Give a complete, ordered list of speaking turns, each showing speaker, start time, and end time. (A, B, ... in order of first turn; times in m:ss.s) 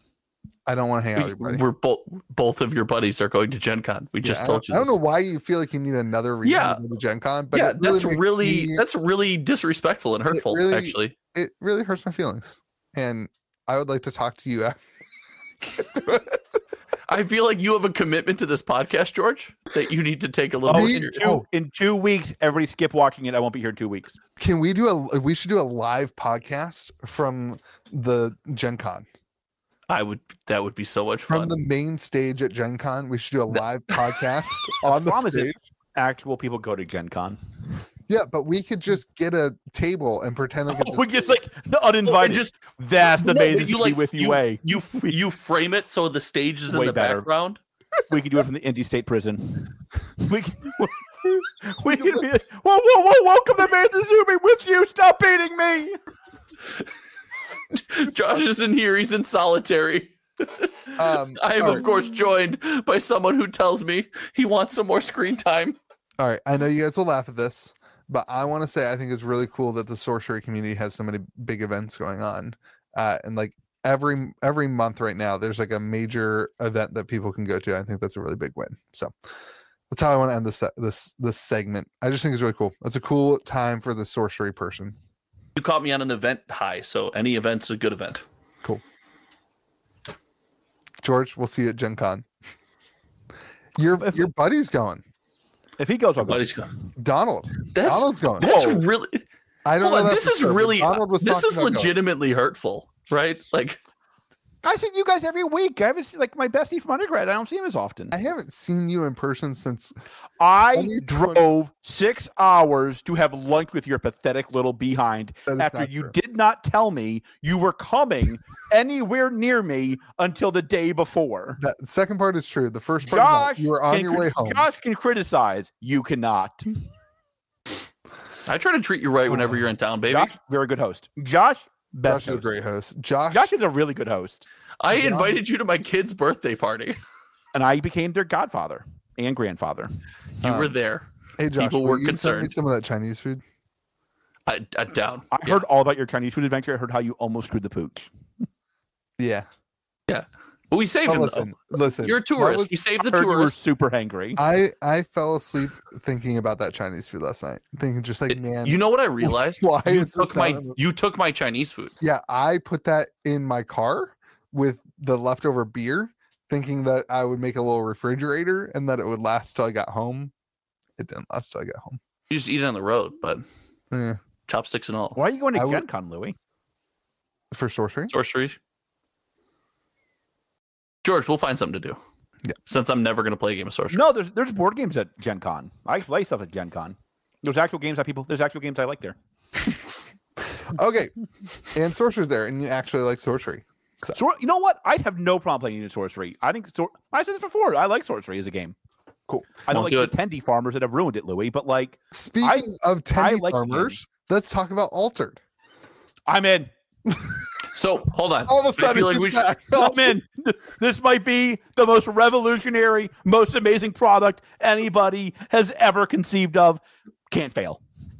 0:00.6-0:01.6 A
0:01.2-0:05.0 B
0:04.2-0:08.8 A
0:06.4-0:06.8 B
0:07.5-0:11.1 B
0:10.3-0:14.8 A
0:15.6-0:16.4 A
0:17.1-0:21.2 B
0:20.6-0:24.2 C
0:20.7-0:21.4 A
0:24.4-0:29.1 A
0:29.9-0:31.5 B
0:31.3-0:35.6 A
0:34.9-0:37.4 C
0:38.1-0:41.3 A
0:40.7-0:45.1 C
0:42.0-0:47.6 B
0:46.7-0:47.2 C
0:48.1-0:56.0 C
0:51.9-0:52.2 A
0:57.7-1:05.8 B
1:01.0-1:01.8 A
1:06.2-1:19.1 A
1:19.9-1:25.0 A
1:25.6-1:28.2 B
1:31.0-1:32.2 A
1:33.8-1:35.0 A
1:34.0-1:34.3 C
1:35.8-1:36.4 C
1:36.2-1:36.7 B
1:37.0-1:38.6 A
1:37.7-1:39.2 B
1:38.4-1:38.8 C
1:39.6-1:41.9 A
1:39.8-1:43.8 B
1:44.6-1:48.1 C
1:48.1-1:49.9 A
1:50.4-2:01.6 C
1:50.7-1:51.5 A
1:55.5-1:56.1 A
2:01.6-2:04.7 A
2:03.1-2:06.7 C
2:08.4-2:10.3 B
2:10.1-2:12.6 C
2:12.0-2:13.6 A
2:13.3-2:14.4 C
2:14.8-2:17.0 B
2:14.9-2:15.4 A
2:17.5-2:19.9 C
2:20.4-2:22.5 B
2:20.4-2:20.7 A
2:21.4-2:23.4 A
2:24.4-2:25.6 B
2:25.3-2:28.1 C
2:29.2-2:29.5 A
2:30.1-2:33.6 B
2:31.0-2:32.8 A
2:33.0-2:34.4 C
2:34.4-2:40.8 A
2:38.3-2:41.9 B
2:42.0-2:50.3 A
2:51.0-2:52.0 A
2:52.3-2:53.4 B
2:53.9-2:54.2 A
2:54.5-2:55.2 B
2:55.2-2:56.4 C
2:55.5-2:55.8 A
2:57.5-2:58.1 A
2:58.1-2:58.6 B
3:01.0-3:02.0 B
3:02.6-3:04.0 B
3:03.9-3:09.2 C
3:10.6-3:11.1 A
3:11.7-3:14.2 A
3:14.1-3:18.7 C
3:19.3-3:19.5 A
3:19.6-3:24.0 C
3:19.7-3:20.1 B
3:22.1-3:25.4 A
3:26.3-3:26.7 C
3:27.7-3:29.5 B
3:28.5-3:30.2 A
3:29.7-3:37.8 C